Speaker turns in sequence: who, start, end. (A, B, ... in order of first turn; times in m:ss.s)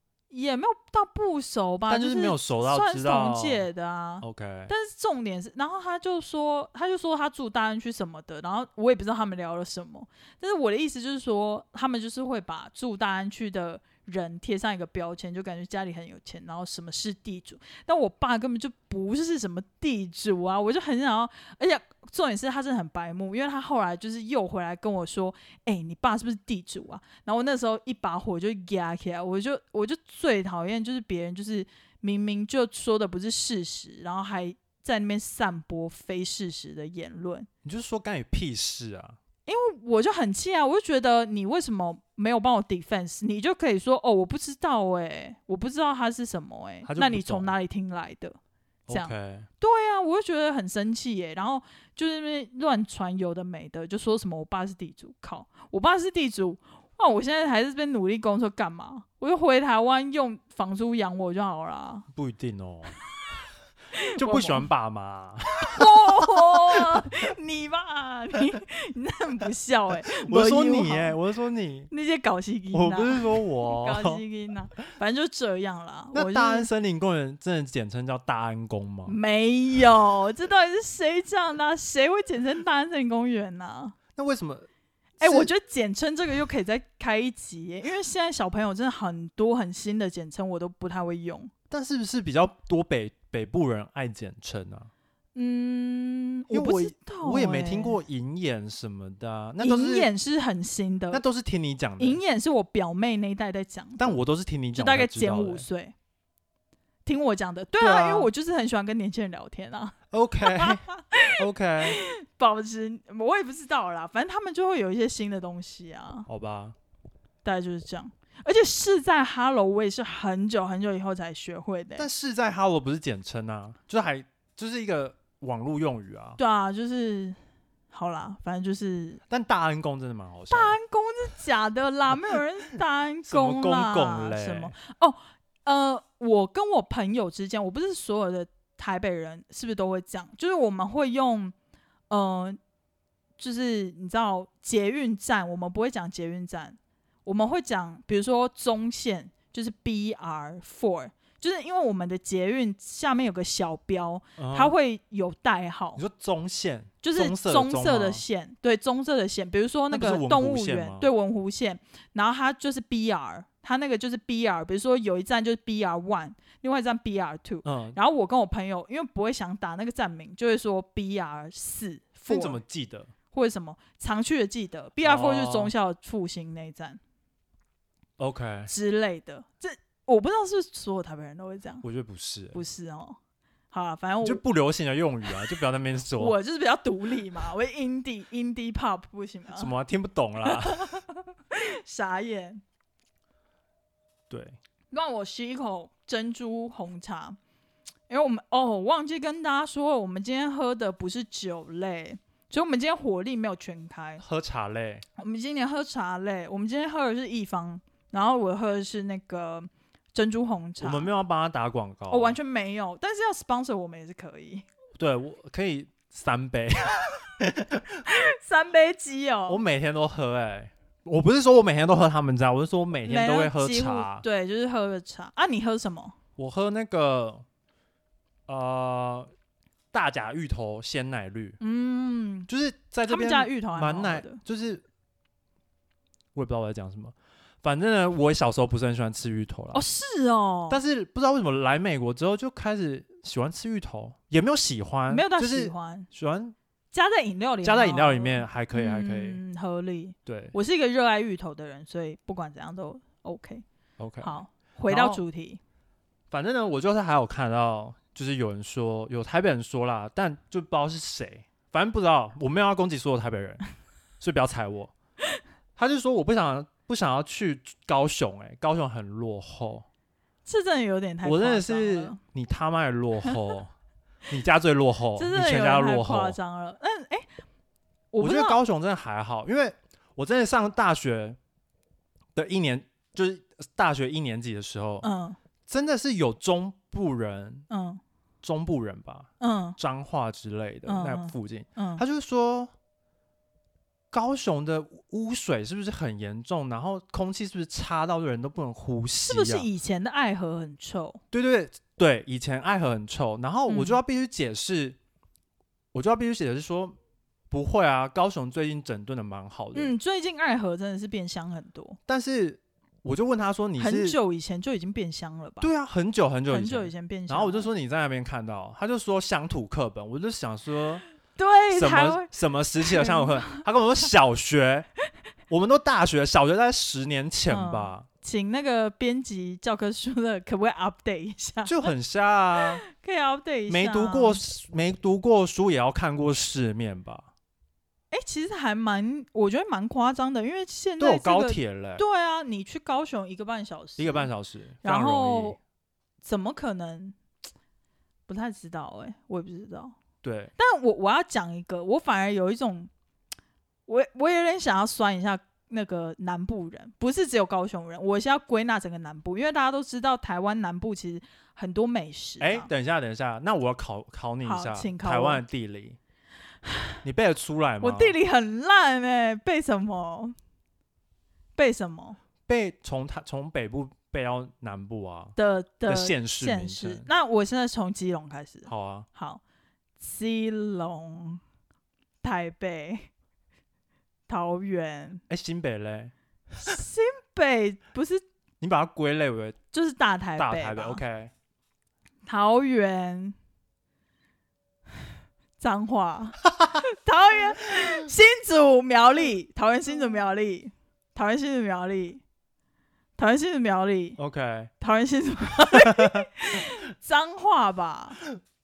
0:00.3-0:37.5 A
0:01.9-0:03.7 B
0:04.2-0:04.7 B
0:37.6-0:39.2 B
0:39.4-0:48.4 A
0:46.8-0:47.5 B
0:48.9-0:49.5 B
0:48.9-1:02.1 A
1:02.1-1:02.9 B
1:03.9-1:04.6 A
1:04.2-1:07.1 B
1:05.6-1:11.2 A
1:10.1-1:11.9 B
1:11.9-1:16.7 A
1:12.7-1:14.2 B
1:16.1-1:19.2 B
1:19.1-1:24.0 A
1:24.1-1:24.7 B
1:25.2-1:31.5 A
1:25.2-1:25.5 B
1:31.7-1:34.9 B
1:35.4-1:38.0 A
1:36.5-1:40.1 B
1:39.6-1:41.2 A
1:41.1-1:42.2 B
1:42.0-1:44.2 A
1:44.0-1:45.6 B
1:44.7-1:45.9 A
1:47.0-1:56.3 A
1:47.8-1:48.3 B
1:50.1-1:50.8 B
1:51.4-1:52.0 B
1:56.3-1:56.7 B
1:57.4-2:02.1 A
2:02.0-2:06.4 B
2:06.4-2:07.4 A
2:07.9-2:09.2 A
2:09.3-2:10.8 B
2:10.5-2:21.5 A
2:13.3-2:14.7 B
2:22.1-2:22.6 A
2:23.4-2:36.0 A
2:34.4-2:34.7 B
2:36.0-2:38.2 B
2:37.0-2:52.6 A
2:39.9-2:41.1 B
2:47.6-2:48.0 B
2:52.3-2:53.1 B
2:53.3-2:57.0 A
2:55.0-2:55.7 B
2:58.2-2:58.7 B
2:58.7-3:01.8 A
3:01.8-3:02.6 B
3:02.5-3:03.2 A
3:03.7-3:04.4 A
3:04.2-3:06.4 B
3:06.2-3:09.7 A
3:09.6-3:10.9 B
3:10.4-3:12.6 A
3:14.3-3:14.6 B
3:14.9-3:17.4 A
3:18.1-3:24.2 A
3:24.2-3:25.0 B
3:25.2-3:31.1 A
3:30.8-3:32.4 B
3:32.1-3:34.6 A
3:35.0-3:38.0 B
3:38.0-3:39.6 A
3:39.5-3:44.2 B
3:43.0-3:46.2 A
3:46.4-3:47.4 B
3:48.5-3:49.3 B
3:49.9-3:51.6 B
3:51.6-3:52.5 A
3:52.5-3:54.8 B
3:53.1-3:54.4 A
3:56.4-3:59.8 B
3:59.7-4:00.8 A
4:00.7-4:06.6 B
4:05.1-4:06.1 A
4:06.9-4:13.6 A
4:07.6-4:09.4 B
4:10.2-4:10.6 B
4:14.0-4:15.2 B
4:14.2-4:15.6 A
4:16.3-4:23.6 B
4:24.2-4:24.9 B
4:25.8-4:29.9 B
4:30.4-4:32.2 A
4:31.2-4:33.7 B
4:34.3-4:36.4 B
4:35.2-4:37.3 A
4:38.1-4:38.6 A
4:38.2-4:41.4 B
4:42.4-4:45.1 B
4:45.0-4:45.4 A
4:45.7-4:47.6 B
4:47.7-4:48.0 A
4:48.4-4:52.7 B
4:49.4-4:49.8 A
4:50.9-4:52.0 A
4:54.1-4:59.7 B
4:59.2-5:01.2 A
5:01.3-5:05.0 B
5:03.7-5:04.0 A
5:05.9-5:07.0 B
5:07.5-5:09.9 B
5:09.7-5:12.0 A
5:12.1-5:14.2 B
5:13.8-5:15.7 A
5:15.6-5:21.0 B
5:16.5-5:17.7 A
5:21.4-5:22.3 A
5:21.7-5:24.9 B
5:22.8-5:23.6 A
5:25.5-5:28.1 B
5:27.5-5:31.9 A
5:31.6-5:32.8 B
5:32.9-5:34.4 A
5:33.7-5:37.3 B
5:38.1-5:44.3 A
5:41.0-5:42.0 B
5:44.0-5:45.6 B
5:44.8-5:45.6 A
5:46.2-5:47.2 A
5:48.3-5:50.0 A
5:50.2-5:50.5 B
5:50.6-5:52.9 A
5:53.9-6:02.7 A
6:02.4-6:06.0 B
6:04.4-6:05.4 A
6:06.7-6:06.9 A
6:07.0-6:08.2 B
6:07.8-6:10.4 A
6:11.6-6:12.2 A
6:12.5-6:15.4 B
6:15.4-6:19.4 A
6:15.9-6:17.1 B
6:18.7-6:19.1 B
6:20.0-6:21.4 A
6:22.2-6:23.1 A
6:24.3-6:25.2 A
6:25.3-6:26.1 B
6:26.6-6:28.2 A
6:28.6-6:29.6 B
6:29.7-6:31.0 A
6:30.4-6:31.3 B
6:32.2-6:33.4 A
6:35.6-6:42.2 A
6:43.2-6:44.2 A
6:44.2-6:44.7 B
6:44.8-6:48.2 A
6:45.7-6:46.2 B